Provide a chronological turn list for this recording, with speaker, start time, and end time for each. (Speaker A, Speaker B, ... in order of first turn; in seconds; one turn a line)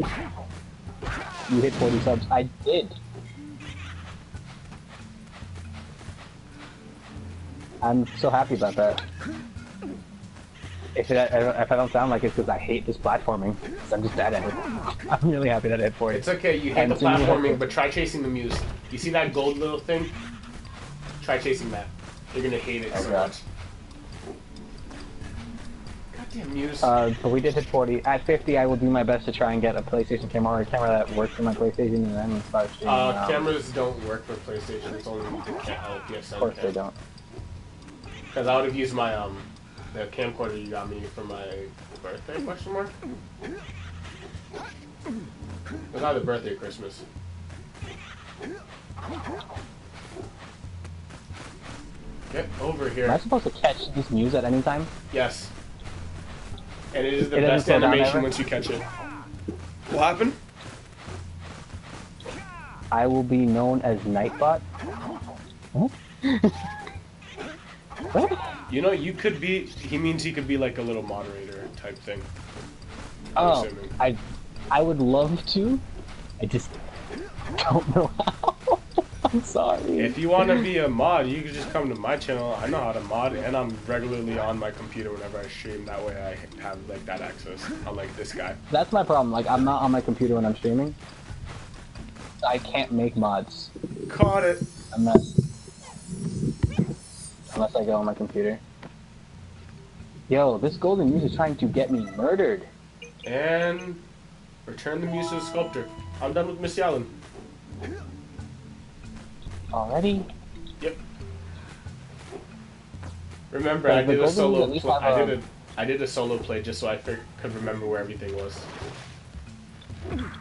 Speaker A: 1.5-3.0
Speaker A: 7.8-9.0
Speaker A: 10.9-17.6
Speaker B: 16.1-20.2
Speaker B: 21.2-23.4
Speaker A: 22.9-23.3
Speaker B: 26.1-27.0
Speaker A: 26.8-33.5
Speaker B: 32.9-36.7
Speaker A: 36.4-37.0
Speaker B: 38.3-43.0
Speaker B: 45.9-47.0
Speaker B: 52.3-53.2
Speaker A: 53.0-54.9
Speaker B: 55.1-55.5
Speaker B: 56.9-58.9
Speaker A: 57.3-58.3
Speaker B: 59.9-60.4
Speaker A: 62.9-64.6
Speaker A: 65.7-66.7
Speaker A: 68.1-68.6
Speaker B: 68.7-72.3
Speaker B: 73.4-73.9
Speaker A: 73.4-74.2
Speaker A: 74.7-75.8
Speaker A: 76.4-76.7
Speaker A: 77.6-80.7
Speaker B: 80.0-88.6
Speaker A: 88.7-91.0
Speaker A: 92.4-93.7
Speaker B: 94.1-94.7
Speaker A: 94.9-95.4
Speaker A: 97.5-98.6
Speaker A: 100.3-102.7
Speaker B: 103.2-104.0
Speaker B: 104.7-107.1
Speaker A: 109.7-110.3
Speaker B: 113.5-118.7
Speaker A: 113.8-115.4